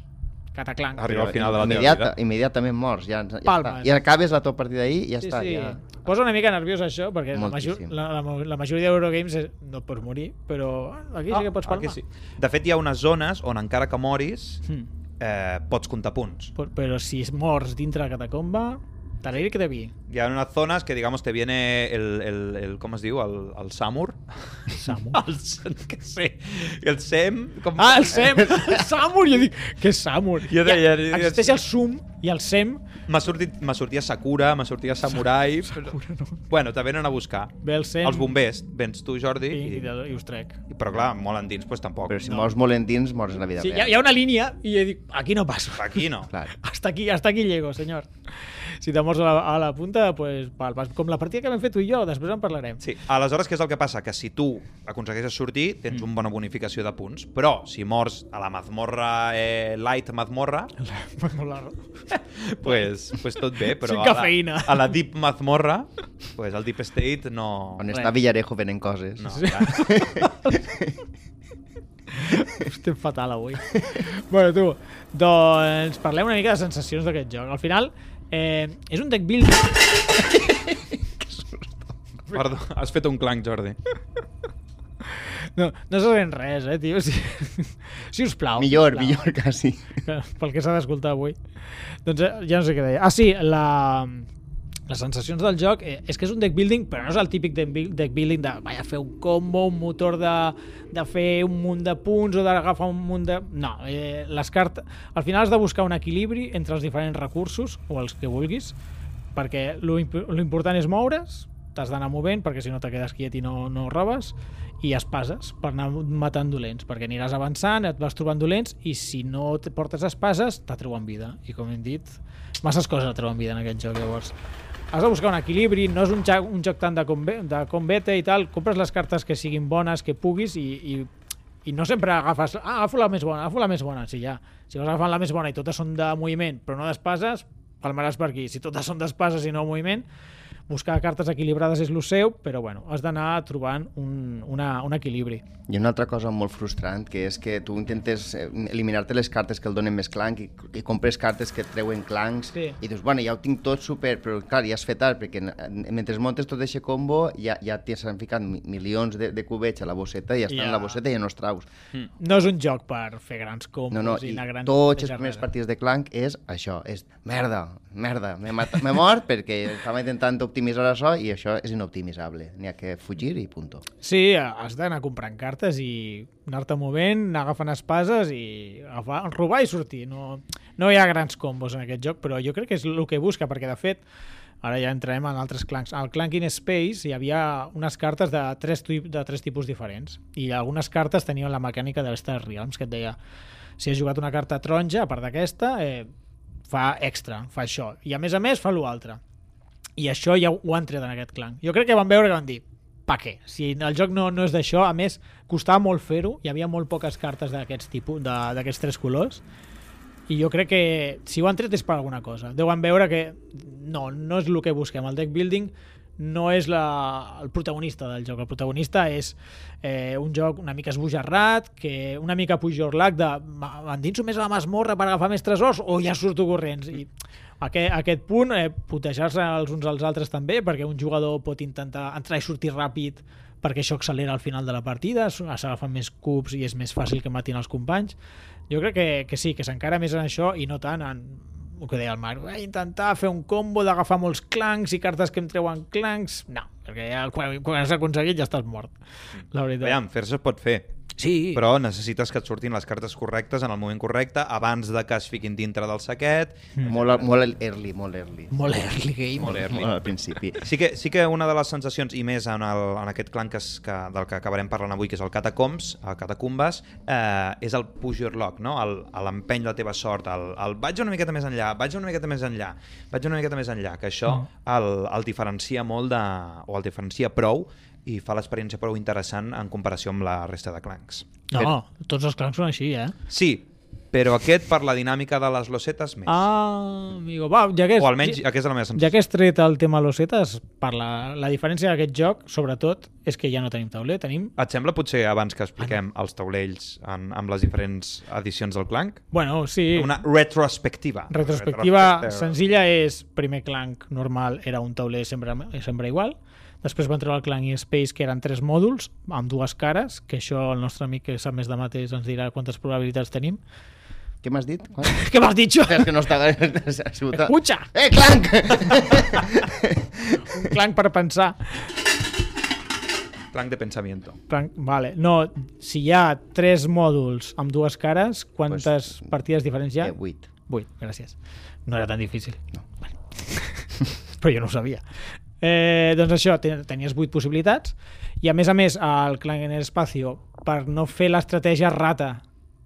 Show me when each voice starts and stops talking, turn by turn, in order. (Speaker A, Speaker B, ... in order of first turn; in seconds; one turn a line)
Speaker A: 0.5-1.4
Speaker B: 1.0-2.1
Speaker C: 1.1-5.8
Speaker A: 3.5-4.0
Speaker A: 5.2-12.0
Speaker C: 7.3-7.9
Speaker B: 11.3-14.6
Speaker B: 15.2-16.5
Speaker A: 16.6-19.9
Speaker B: 20.1-28.7
Speaker A: 24.7-25.2
Speaker A: 27.8-32.8
Speaker B: 30.4-31.6
Speaker B: 33.1-36.0
Speaker A: 35.7-36.4
Speaker B: 36.5-39.9
Speaker A: 37.6-38.3
Speaker A: 39.5-40.6
Speaker B: 40.7-42.3
Speaker C: 42.1-43.9
Speaker A: 43.6-48.1
Speaker B: 45.8-46.3
Speaker A: 48.7-52.8
Speaker B: 52.8-60.7
Speaker A: 60.8-61.9
Speaker A: 62.6-62.9
Speaker B: 62.6-67.9
Speaker A: 63.8-64.9
Speaker C: 67.8-71.0
Speaker B: 69.2-70.0
Speaker A: 69.3-70.6
Speaker A: 72.1-80.5
Speaker B: 82.3-83.8
Speaker A: 85.2-89.3
Speaker C: 88.6-89.9
Speaker A: 90.0-91.4
Speaker A: 92.0-94.3
Speaker A: 94.9-108.8
Speaker A: 109.3-124.3
Speaker A: 124.9-131.1
Speaker A: 131.6-140.1
Speaker A: 140.7-145.4
Speaker C: 145.7-161.7
Speaker A: 160.5-161.0
Speaker A: 162.2-165.4
Speaker C: 163.9-173.8
Speaker A: 174.0-184.0
Speaker A: 184.6-193.2
Speaker A: 193.8-196.1
Speaker A: 196.7-199.2
Speaker A: 200.0-209.4
Speaker A: 210.3-238.2
Speaker A: 238.7-249.0
Speaker A: 249.5-250.0
Speaker B: 249.8-250.9
Speaker A: 251.2-251.6
Speaker B: 251.5-257.2
Speaker C: 256.9-258.5
Speaker A: 258.5-259.9
Speaker B: 259.4-260.0
Speaker C: 259.4-260.6
Speaker B: 260.6-281.7
Speaker A: 281.5-283.1
Speaker B: 283.3-286.4
Speaker A: 286.3-288.4
Speaker B: 288.0-289.1
Speaker A: 288.9-294.5
Speaker B: 294.6-299.2
Speaker A: 299.3-300.1
Speaker B: 299.9-302.6
Speaker A: 301.3-313.6
Speaker C: 314.4-315.2
Speaker A: 315.1-316.1
Speaker C: 315.8-320.4
Speaker A: 317.4-317.9
Speaker A: 320.4-321.9
Speaker B: 323.5-324.4
Speaker A: 324.5-330.1
Speaker C: 328.7-329.3
Speaker C: 330.0-330.5
Speaker A: 330.7-332.6
Speaker A: 333.4-335.0
Speaker A: 335.6-342.4